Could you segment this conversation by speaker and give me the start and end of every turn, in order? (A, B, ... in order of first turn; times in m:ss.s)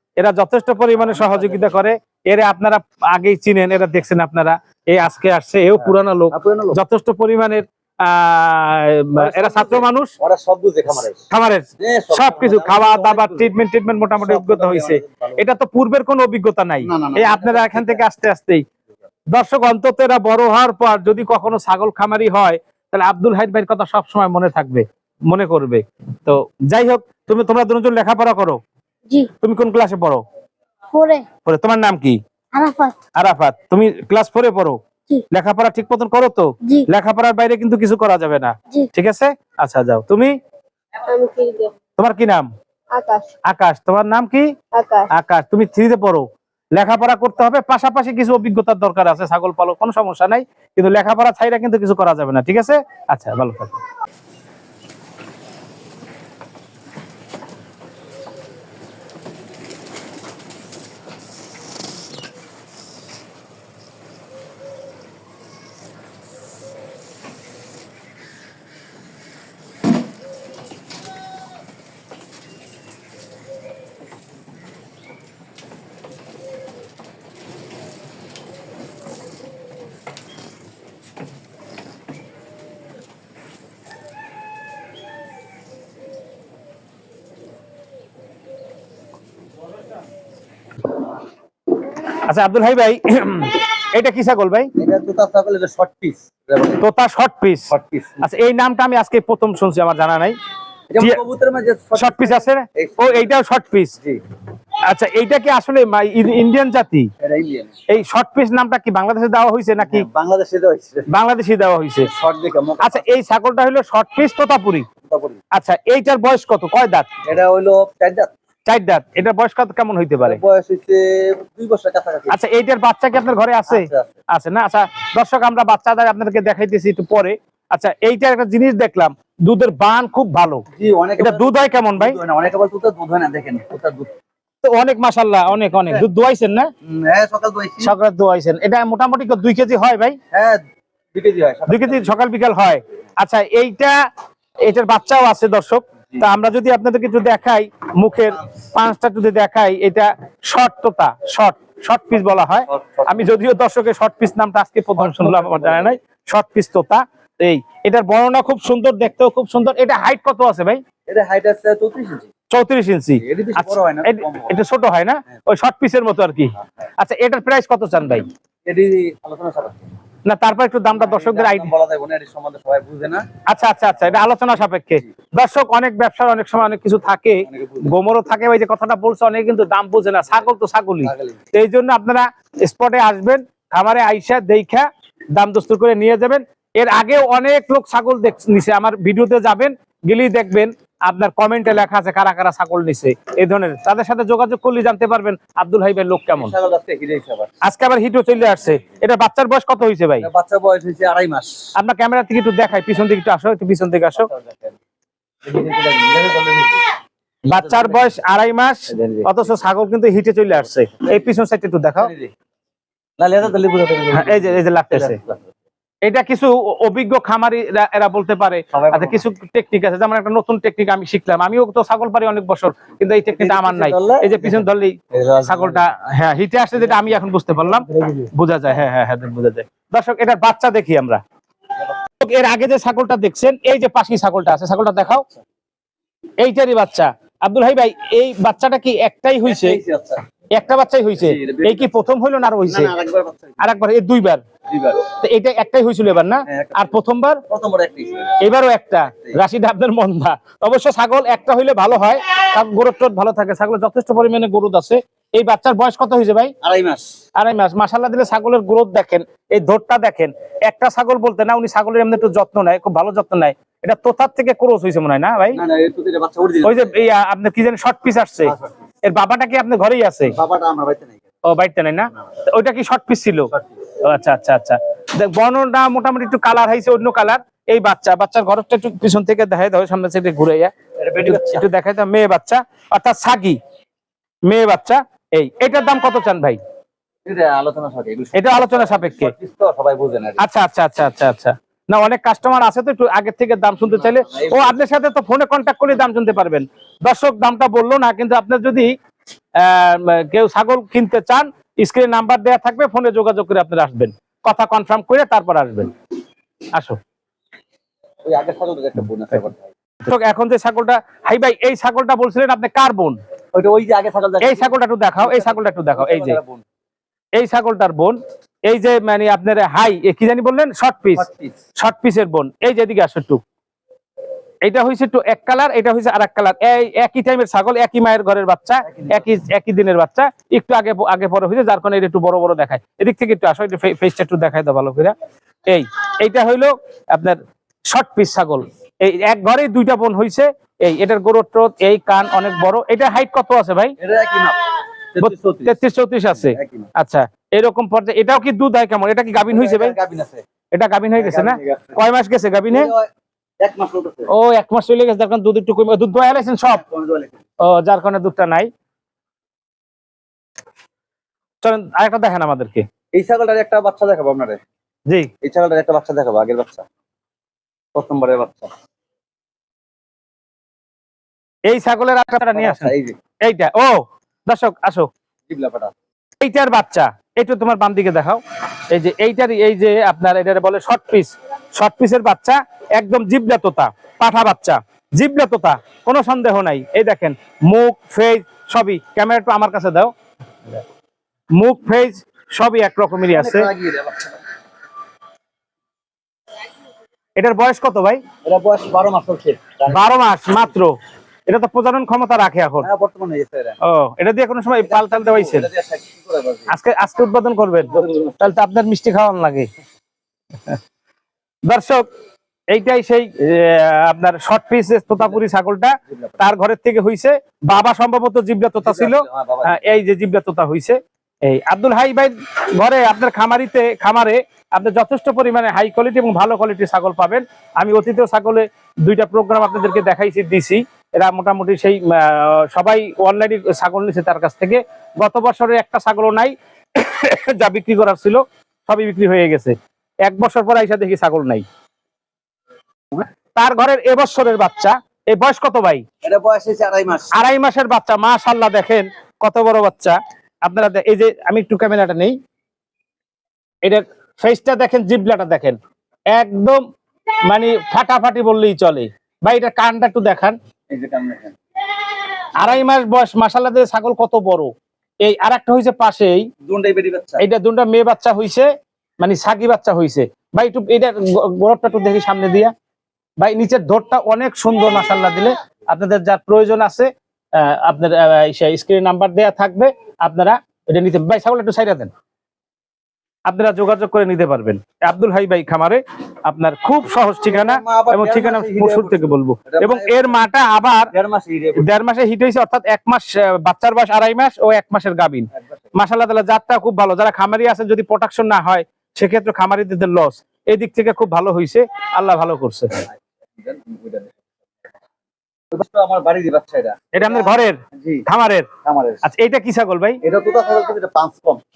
0:00.2-0:10.1 A
0:01.0-0:01.9 B
0:05.8-0:06.8 B
0:09.2-0:11.2 B
0:11.3-0:18.6 A
0:11.8-0:13.5 B
0:14.1-0:15.4 B
0:16.8-0:18.0 B
0:19.3-0:28.6 A
0:29.4-0:30.2 A
0:30.9-0:31.2 C
0:31.4-0:32.2 A
0:32.5-0:33.0 C
0:33.2-0:34.8 A
0:35.3-0:40.3 A
0:41.1-0:41.7 C
0:42.0-0:42.5 A
0:42.9-0:43.3 C
0:43.4-0:44.5 A
0:44.7-0:45.1 C
0:45.1-0:53.8 A
1:32.0-1:34.7 A
1:34.8-1:36.8 B
1:36.8-1:40.4 A
1:37.7-1:38.2 B
1:40.9-1:43.3 B
1:41.9-1:44.0 A
1:44.9-1:47.1 A
1:47.2-1:47.8 B
1:47.9-1:50.1 A
1:49.8-1:51.1 B
1:51.1-1:52.1 A
1:52.0-1:53.0 B
1:52.8-1:54.8 A
1:55.0-1:55.4 B
1:55.5-1:57.1 A
1:57.2-1:58.3 B
1:58.6-2:00.4 A
2:00.2-2:02.4 B
2:02.3-2:10.6 A
2:03.7-2:04.2 B
2:10.7-2:14.1 B
2:11.2-2:12.2 A
2:14.6-2:16.7 A
2:16.8-2:17.9 B
2:17.8-2:20.2 A
2:20.3-2:20.6 B
2:21.1-2:22.1 B
2:21.7-2:24.0 A
2:24.6-2:40.8 A
2:32.7-2:33.3 B
2:35.0-2:36.0 B
2:41.1-2:42.3 B
2:42.5-2:48.3 A
2:43.2-2:44.6 B
2:48.6-2:49.8 B
2:50.2-2:51.7 A
2:50.9-2:53.2 B
2:53.5-3:16.5 A
2:57.5-2:57.9 B
3:01.0-3:01.4 B
3:16.3-3:17.5 B
3:17.6-3:20.3 A
3:20.2-3:21.7 B
3:21.8-3:24.3 A
3:24.1-3:24.8 B
3:25.4-3:26.8 B
3:27.4-3:32.1 A
3:27.5-3:28.1 B
3:28.9-3:29.3 B
3:32.0-3:32.3 B
3:33.2-3:35.5 B
3:34.1-3:35.2 A
3:36.0-3:51.2 A
3:38.7-3:39.2 B
3:43.4-3:45.8 B
3:46.8-3:48.3 B
3:52.1-3:55.2 A
3:56.4-3:59.8 A
3:59.4-4:00.2 B
4:00.5-4:02.9 A
4:01.2-4:02.0 B
4:02.6-4:03.7 B
4:03.6-4:04.4 A
4:04.7-4:05.0 B
4:05.1-4:07.4 A
4:06.4-4:06.9 B
4:07.5-4:08.4 B
4:08.4-4:16.5 A
4:16.6-4:17.1 B
4:17.4-4:25.6 A
4:25.5-4:26.9 B
4:26.6-4:30.4 A
4:28.4-4:28.7 B
4:30.3-4:31.2 B
4:31.4-4:43.6 A
4:41.0-4:41.6 B
4:44.4-4:46.6 A
4:47.2-4:50.4 B
4:48.3-4:49.3 A
4:50.4-4:58.9 A
4:54.1-4:54.7 B
4:59.6-5:05.9 A
5:08.2-5:09.7 B
5:10.0-5:13.2 A
5:13.5-5:16.6 B
5:14.4-5:16.4 A
5:17.3-5:21.3 A
5:21.1-5:21.6 B
5:21.8-5:23.4 A
5:24.6-5:35.1 A
5:28.8-5:29.3 B
5:35.6-5:43.9 A
5:44.0-5:44.6 B
5:45.1-5:45.8 B
5:45.2-5:49.9 A
5:46.3-5:46.9 B
5:49.5-5:50.4 B
5:50.7-5:52.9 A
5:51.2-5:52.0 B
5:52.7-5:53.1 B
5:53.6-5:54.3 B
5:54.3-5:56.8 A
5:56.7-5:57.4 B
5:57.6-5:58.7 A
6:01.6-6:02.8 A
6:03.1-6:04.6 B
6:05.4-6:06.8 B
6:07.9-6:08.7 B
6:11.7-6:12.9 A
6:12.5-6:13.2 B
6:13.4-6:15.1 A
6:15.5-6:15.9 B
6:16.4-6:30.1 A
6:31.5-6:33.7 A
6:33.3-6:34.4 B
6:37.4-6:38.2 A
6:38.4-6:40.0 B
6:39.9-6:40.9 A
6:41.5-6:42.9 A
6:42.8-6:43.8 B
6:43.8-6:45.7 A
6:44.8-6:46.7 B
6:46.7-6:49.7 A
6:47.9-6:48.5 B
6:51.6-6:52.0 A
6:52.7-7:21.6 A
6:56.1-6:56.4 B
6:58.8-6:59.8 B
7:23.6-7:26.0 A
7:26.2-7:27.3 B
7:27.3-7:32.4 A
7:33.8-7:35.8 A
7:36.3-7:36.8 A
7:37.5-7:40.6 A
7:40.9-7:41.6 B
7:42.6-7:44.7 A
7:45.2-7:46.5 A
7:46.6-7:47.4 B
7:47.4-7:48.7 A
7:49.2-7:52.7 A
7:53.4-8:02.1 A
8:03.5-8:11.1 A
8:07.4-8:10.4 B
8:11.1-8:12.0 B
8:11.8-8:23.1 A
8:23.6-8:24.4 B
8:25.7-8:28.2 B
8:27.1-8:28.7 A
8:28.8-8:29.2 B
8:29.2-8:30.2 A
8:30.2-8:31.6 B